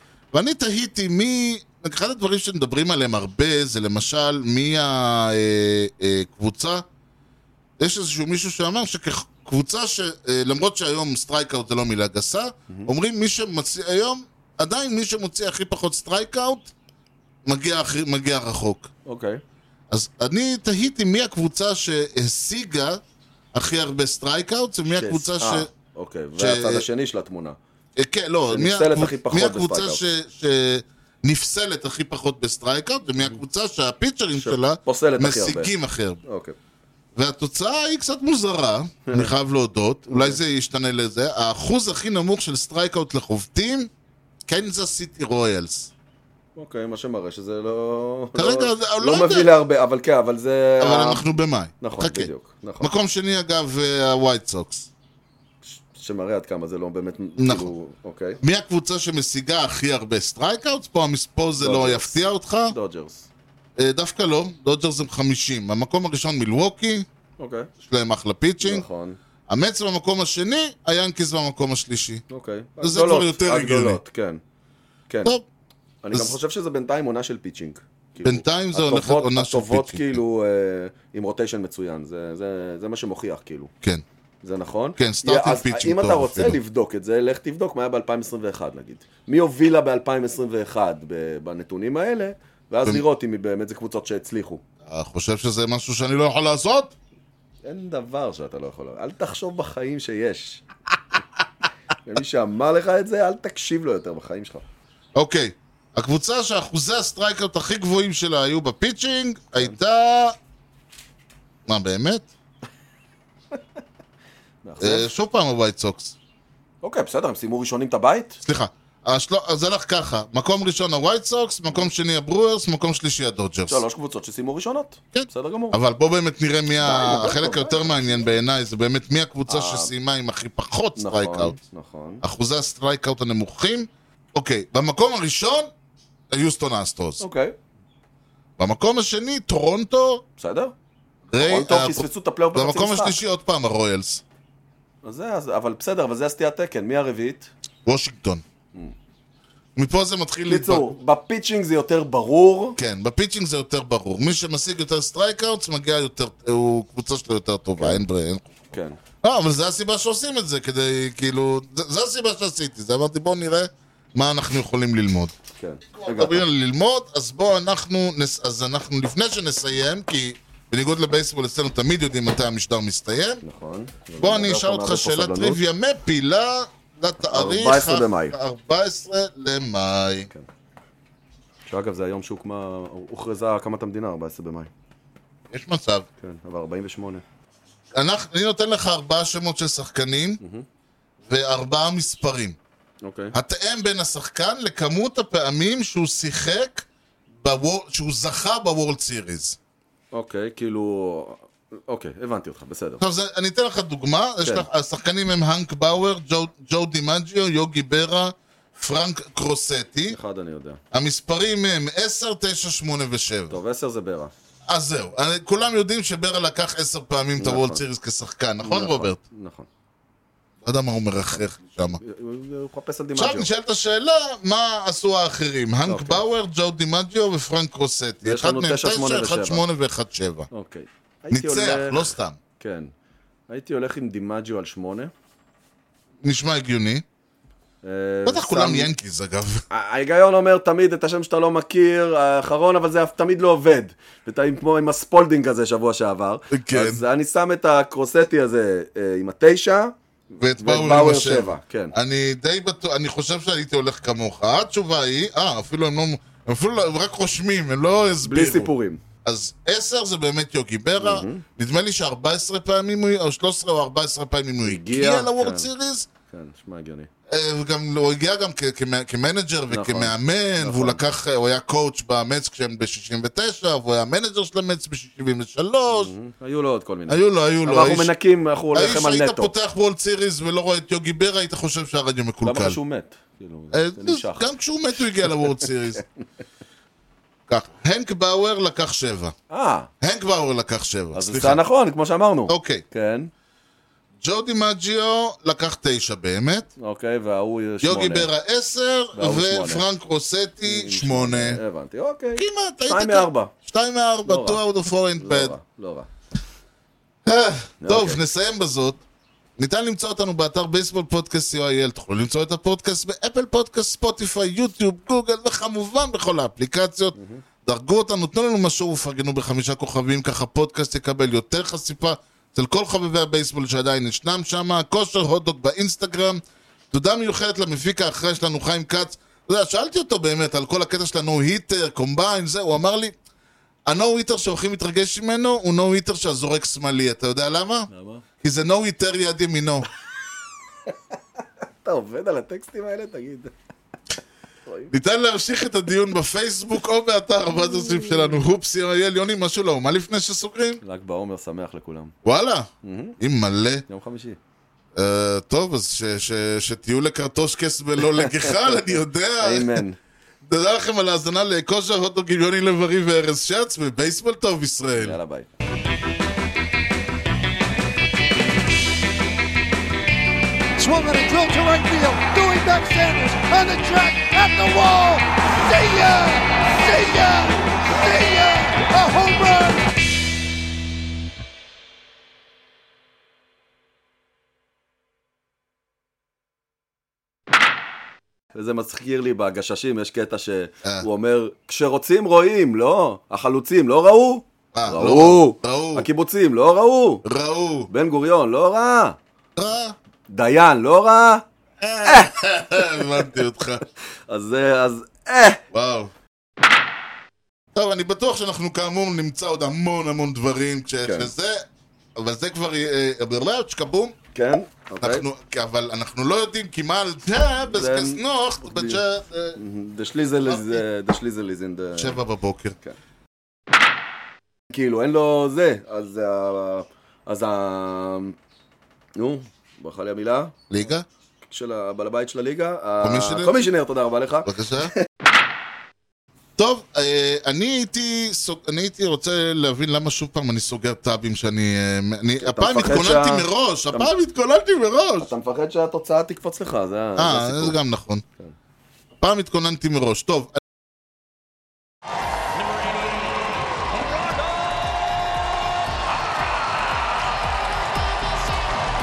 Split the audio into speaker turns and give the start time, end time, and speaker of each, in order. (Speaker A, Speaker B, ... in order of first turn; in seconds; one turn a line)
Speaker A: 0.3-6.8
Speaker A: 7.8-16.7
Speaker A: 17.5-18.9
Speaker B: 19.1-19.4
Speaker A: 19.9-23.0
Speaker A: 23.5-25.7
Speaker B: 24.9-27.6
Speaker A: 26.4-26.9
Speaker A: 28.0-36.2
Speaker B: 28.5-30.0
Speaker B: 34.4-35.7
Speaker B: 36.2-36.5
Speaker A: 37.2-43.9
Speaker B: 39.1-39.3
Speaker B: 40.1-40.4
Speaker A: 44.5-45.9
Speaker B: 46.6-51.2
Speaker A: 48.4-49.5
Speaker A: 50.8-54.9
Speaker B: 51.8-52.9
Speaker B: 55.6-58.4
Speaker A: 57.4-57.7
Speaker A: 58.4-62.8
Speaker B: 61.6-62.2
Speaker B: 62.7-63.3
Speaker A: 63.8-67.1
Speaker B: 67.4-67.7
Speaker A: 67.8-68.9
Speaker B: 68.6-69.2
Speaker A: 69.5-72.2
Speaker B: 72.3-74.4
Speaker A: 72.8-74.0
Speaker B: 75.1-75.3
Speaker B: 76.0-83.7
Speaker A: 78.2-80.2
Speaker B: 84.4-94.6
Speaker A: 85.0-86.6
Speaker A: 94.9-96.9
Speaker B: 97.6-100.6
Speaker B: 102.0-104.7
Speaker A: 105.2-110.4
Speaker A: 111.7-112.3
Speaker B: 114.6-115.1
Speaker A: 114.8-116.2
Speaker B: 116.8-118.4
Speaker A: 118.4-123.8
Speaker B: 123.7-125.8
Speaker A: 125.1-131.6
Speaker B: 126.8-128.3
Speaker B: 129.5-129.9
Speaker B: 131.0-132.2
Speaker A: 132.2-135.7
Speaker A: 136.3-137.2
Speaker B: 137.2-137.6
Speaker A: 138.6-140.2
Speaker B: 140.4-140.7
Speaker A: 141.3-144.2
Speaker B: 141.3-143.2
Speaker B: 145.0-147.5
Speaker A: 147.8-148.4
Speaker A: 149.8-150.9
Speaker B: 150.5-152.8
Speaker A: 152.8-158.6
Speaker B: 157.8-158.1
Speaker B: 158.7-159.0
Speaker A: 159.2-165.3
Speaker B: 165.6-166.4
Speaker A: 166.0-173.4
Speaker B: 173.4-175.6
Speaker A: 174.2-180.3
Speaker B: 177.2-178.4
Speaker B: 181.7-184.7
Speaker A: 185.5-186.1
Speaker B: 186.2-187.2
Speaker A: 187.9-190.4
Speaker B: 190.4-190.7
Speaker A: 191.3-192.6
Speaker B: 193.0-193.4
Speaker A: 193.3-196.9
Speaker A: 197.4-199.6
Speaker B: 200.1-203.0
Speaker A: 203.0-210.2
Speaker B: 210.1-210.8
Speaker A: 210.9-213.6
Speaker B: 213.5-214.3
Speaker A: 214.7-219.2
Speaker B: 217.4-217.8
Speaker B: 218.6-219.7
Speaker A: 220.6-222.0
Speaker B: 222.0-223.5
Speaker A: 223.2-230.5
Speaker B: 225.9-226.2
Speaker B: 228.2-229.6
Speaker B: 230.5-232.9
Speaker A: 231.3-232.4
Speaker B: 233.5-235.1
Speaker A: 236.2-237.0
Speaker B: 237.8-238.9
Speaker A: 238.2-239.7
Speaker B: 239.7-251.9
Speaker A: 246.5-247.0
Speaker A: 250.4-258.7
Speaker B: 258.2-259.0
Speaker A: 259.2-266.1
Speaker B: 261.0-261.4
Speaker B: 264.6-265.7
Speaker B: 266.3-267.1
Speaker A: 267.3-276.1
Speaker B: 269.7-271.0
Speaker B: 275.9-279.5
Speaker A: 277.1-278.1
Speaker A: 278.7-282.8
Speaker B: 282.4-284.4
Speaker A: 283.7-286.0
Speaker B: 285.2-285.7
Speaker A: 287.5-289.3
Speaker B: 289.5-289.9
Speaker A: 290.0-291.6
Speaker B: 291.1-293.3
Speaker A: 292.5-292.8
Speaker A: 294.2-296.7
Speaker B: 296.8-298.3
Speaker A: 297.8-301.6
Speaker B: 299.1-299.9
Speaker B: 300.6-303.5
Speaker A: 302.4-305.6
Speaker B: 304.2-304.6
Speaker B: 305.2-306.1
Speaker A: 307.2-309.0
Speaker B: 307.8-308.2
Speaker A: 309.6-333.1
Speaker B: 317.1-317.4
Speaker A: 333.9-337.9
Speaker B: 337.9-338.2
Speaker A: 338.4-339.9
Speaker B: 341.8-343.5
Speaker B: 344.7-344.9
Speaker A: 344.9-350.8
Speaker B: 350.8-352.1
Speaker A: 352.2-353.8
Speaker B: 352.8-353.2
Speaker B: 353.9-354.4
Speaker A: 355.0-359.8
Speaker B: 358.0-360.0
Speaker A: 360.4-365.2
Speaker B: 365.0-365.5
Speaker C: 370.8-379.9
Speaker B: 388.5-397.2
Speaker A: 394.7-396.1
Speaker A: 397.2-397.9
Speaker B: 397.9-399.2
Speaker A: 399.6-399.9
Speaker B: 400.3-401.4
Speaker A: 401.8-403.8
Speaker B: 402.0-403.3
Speaker B: 404.3-405.6
Speaker A: 405.7-406.1
Speaker A: 407.8-411.6
Speaker B: 411.0-411.3
Speaker A: 412.2-414.2
Speaker B: 414.3-415.3
Speaker A: 415.0-419.6
Speaker B: 417.6-419.0
Speaker B: 419.6-422.2
Speaker A: 420.4-420.8
Speaker A: 422.0-422.8
Speaker B: 424.7-428.4
Speaker B: 429.1-430.6
Speaker A: 430.7-431.1
Speaker B: 431.4-435.0
Speaker A: 433.0-433.6
Speaker A: 434.5-434.9
Speaker A: 436.6-445.3
Speaker B: 442.4-444.1
Speaker B: 445.2-447.8
Speaker A: 447.2-448.2
Speaker A: 449.2-450.6
Speaker C: 457.9-458.9